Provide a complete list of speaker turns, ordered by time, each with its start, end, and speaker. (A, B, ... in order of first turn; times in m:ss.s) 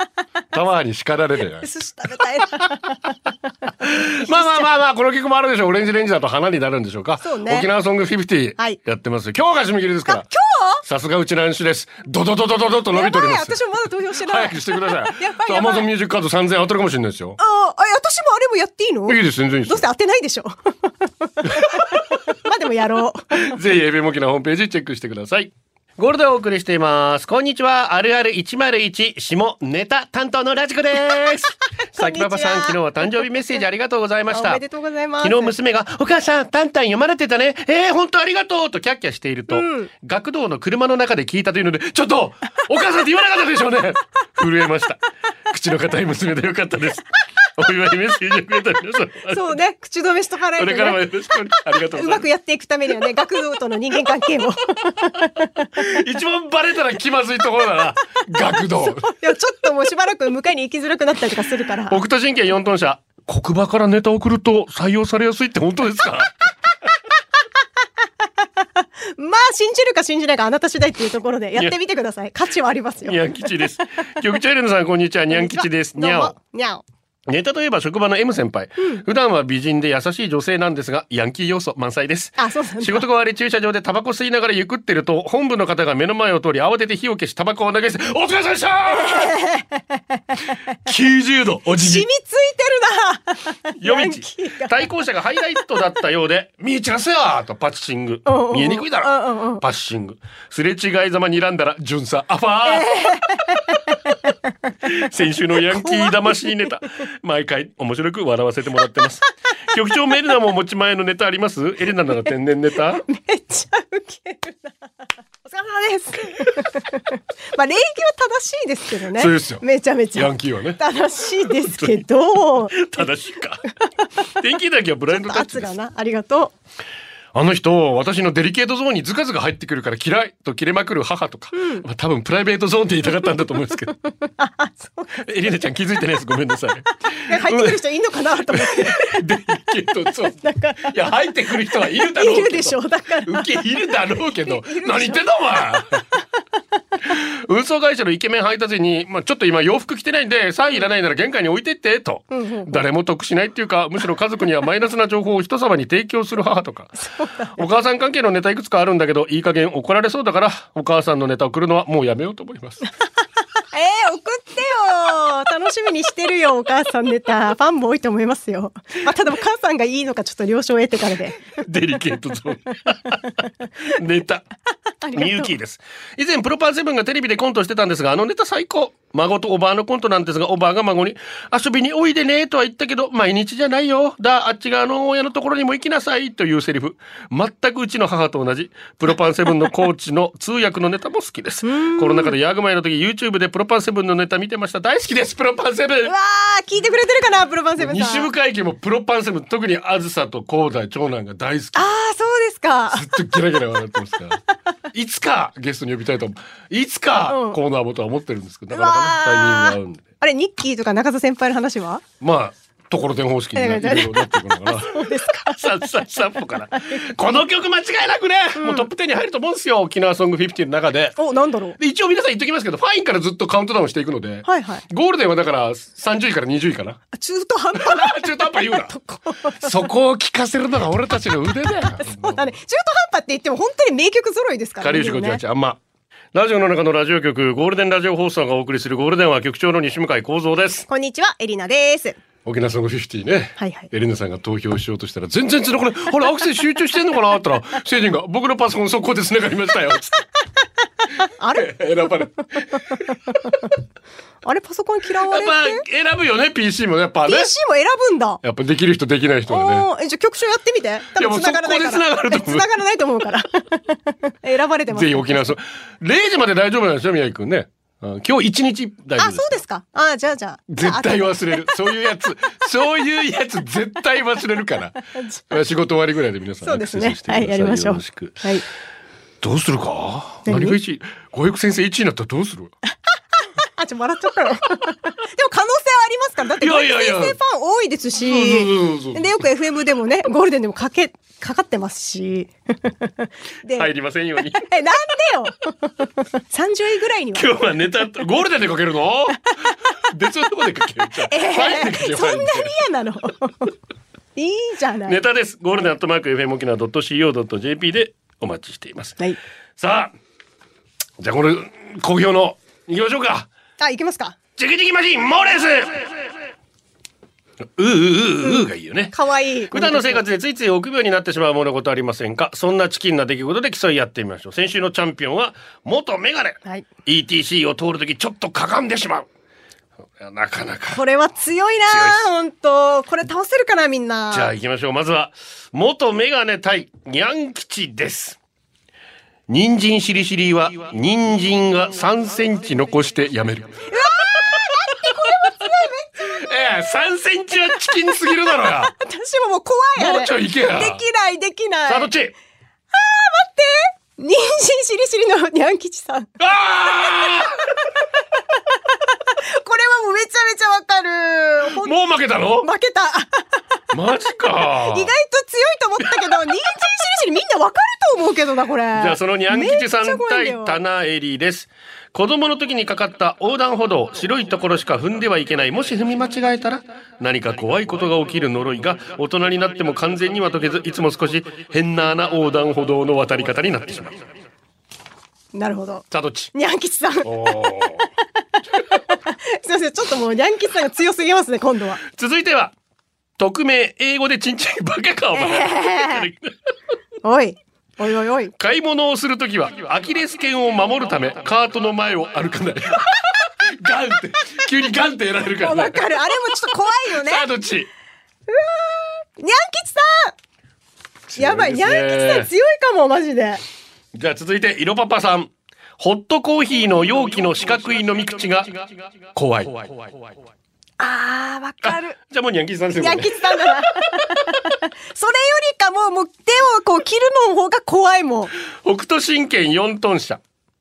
0:00.5-0:01.7 A
0:01.6-0:03.1 B
0:02.4-0:02.6 A
0:03.8-0:10.3 A
0:04.2-0:04.7 B
0:07.2-0:07.7 B
0:10.1-0:10.8 B
0:10.8-0:13.6 A
0:12.9-0:15.9 B
0:14.1-0:17.4 A
0:17.4-0:23.5 B
0:19.1-0:19.8 A
0:21.4-0:22.0 A
0:23.3-0:34.6 A
0:31.9-0:32.8 B
0:34.3-0:35.5 B
0:35.2-0:49.6 A
0:39.5-0:39.9 B
0:49.3-0:51.1 B
0:50.6-0:52.3 A
0:51.9-0:55.7 B
0:55.7-0:59.1 A
0:58.8-1:02.0 B
1:01.9-1:06.3 A
1:08.8-1:13.6 B
1:13.0-1:16.3 A
1:15.3-1:16.8 B
1:17.3-1:29.4 A
1:18.8-1:19.0 B
1:22.4-1:23.1 B
1:29.0-1:30.5 B
1:30.8-1:32.1 A
1:31.8-1:34.8 B
1:33.8-1:42.9 A
1:38.2-1:39.6 B
1:42.6-1:44.1 B
1:44.8-1:53.0 A
1:45.7-1:46.5 B
1:53.0-1:54.8 B
1:55.4-2:02.9 B
1:59.1-1:59.6 A
2:00.1-2:00.8 A
2:01.4-2:03.7 A
2:04.3-2:05.7 A
2:05.1-2:06.5 B
2:07.3-2:14.0 A
2:11.5-2:11.8 B
2:14.2-2:15.2 B
2:15.2-2:17.8 A
2:17.2-2:19.2 B
2:18.5-2:26.0 A
2:20.4-2:21.0 B
2:21.8-2:25.2 B
2:27.0-2:42.8 A
2:32.3-2:32.8 B
2:37.0-2:37.5 B
2:43.7-2:51.4 B
2:51.6-2:54.4 A
2:55.0-2:55.5 B
2:55.1-3:16.1 A
3:11.6-3:12.3 B
3:16.0-3:18.3 B
3:17.8-3:21.9 A
3:21.7-3:23.1 B
3:22.9-3:24.4 A
3:24.9-3:30.0 A
3:27.3-3:27.6 B
3:28.7-3:32.0 B
3:32.2-3:41.2 A
3:33.5-3:36.0 B
3:38.6-3:38.9 B
3:41.2-3:41.8 B
3:41.8-3:47.0 A
3:44.4-3:44.8 B
3:47.1-3:49.7 B
3:47.7-3:48.9 A
3:49.6-3:52.5 A
3:52.0-3:55.4 B
3:54.8-3:55.8 A
3:56.3-4:00.9 A
4:00.9-4:02.2 B
4:02.4-4:10.2 A
4:03.6-4:03.9 B
4:11.4-4:11.7 B
4:11.5-4:13.6 A
4:14.4-4:15.8 B
4:15.2-4:17.5 A
4:17.3-4:18.4 B
4:18.4-4:19.9 A
4:19.5-4:25.5 B
4:21.2-4:22.7 A
4:24.9-4:29.6 A
4:29.2-4:31.8 B
4:30.7-4:35.0 A
4:35.0-4:35.5 B
4:35.5-4:38.5 A
4:36.6-4:38.6 B
4:39.4-4:42.7 A
4:40.4-4:40.8 B
4:43.6-4:53.9 B
4:46.6-4:47.4 A
4:48.2-4:49.4 A
4:53.7-4:54.7 A
4:54.6-4:57.5 B
4:57.3-5:02.7 A
5:01.3-5:03.7 B
5:04.4-5:05.2 B
5:05.0-5:09.2 A
5:09.8-5:10.1 A
5:11.2-5:13.5 A
5:13.8-5:14.4 B
5:14.6-5:16.2 A
5:17.7-5:19.1 A
5:18.4-5:20.2 B
5:19.7-5:29.3 A
5:30.2-5:31.0 A
5:30.9-5:34.5 B
5:31.9-5:32.3 A
5:34.3-5:38.4 A
5:39.5-5:45.7 A
5:43.9-5:46.4 B
5:46.2-5:48.9 A
5:48.9-5:52.1 B
5:50.0-5:51.0 A
5:51.9-5:52.3 A
5:52.9-5:56.3 B
5:56.4-5:57.7 A
5:59.3-6:01.9 B
6:01.6-6:02.7 A
6:02.6-6:03.5 B
6:03.9-6:05.1 A
6:04.9-6:10.8 B
6:06.0-6:06.5 A
6:08.9-6:24.2 A
6:25.5-6:28.1 B
6:26.1-6:26.5 A
6:27.2-6:28.0 A
6:28.8-6:32.0 B
6:32.0-6:32.7 A
6:33.4-6:36.5 A
6:35.4-6:36.3 B
6:37.2-6:38.5 B
6:38.6-6:46.5 A
6:45.6-6:47.5 B
6:47.0-6:47.9 A
6:48.5-6:50.3 B
6:51.3-6:52.5 A
6:51.4-6:53.6 B
6:54.1-7:00.2 A
7:01.0-7:02.2 B
7:01.8-7:04.2 A
7:03.0-7:08.5 B
7:08.8-7:10.4 A